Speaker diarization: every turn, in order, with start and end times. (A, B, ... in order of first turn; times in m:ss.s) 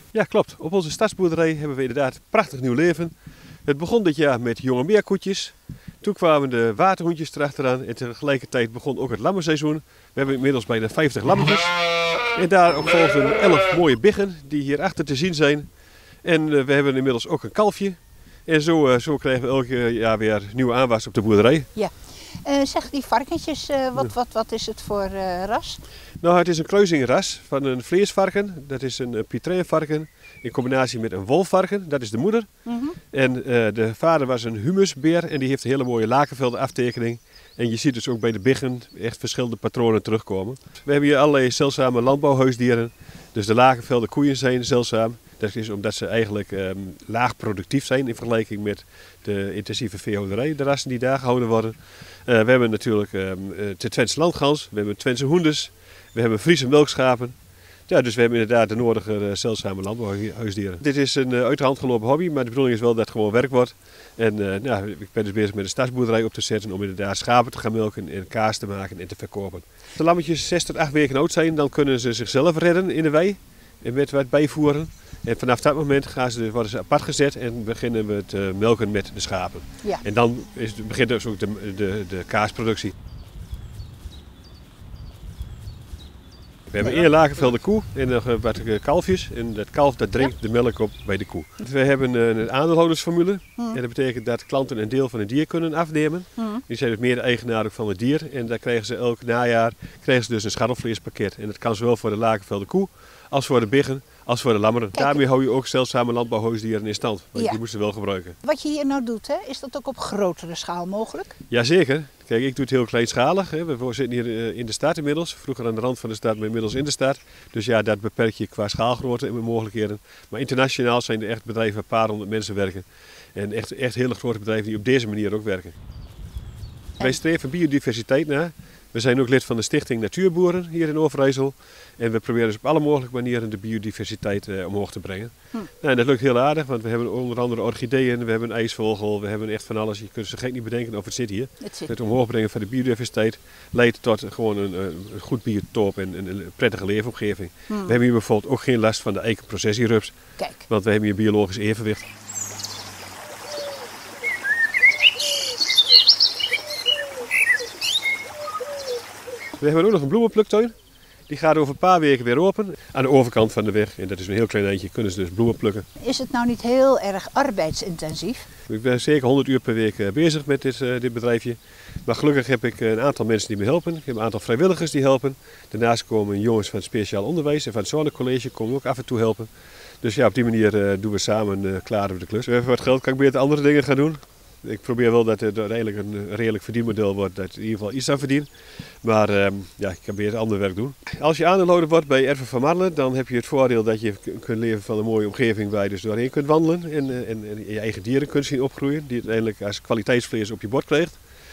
0:00.1-0:03.1 A
0:03.6-0:11.7 A
0:12.3-0:15.7 A
0:16.2-0:21.7 A
0:21.7-0:25.8 B
0:26.2-0:32.5 A
0:32.6-0:33.0 B
0:33.1-0:51.7 A
0:52.2-0:57.3 A
0:57.9-1:22.9 A
1:26.7-1:48.4 A
1:44.9-1:45.2 B
1:48.4-1:51.3 B
1:51.5-2:05.8 A
2:07.0-2:30.2 A
2:21.6-2:21.9 B
2:27.7-2:28.0 B
2:30.4-2:30.6 B
2:30.7-2:32.1 A
2:39.6-2:40.7 A
2:41.3-2:45.8 A
2:46.0-2:48.5 B
2:48.7-2:59.5 A
3:00.0-3:08.5 A
3:09.0-3:21.2 A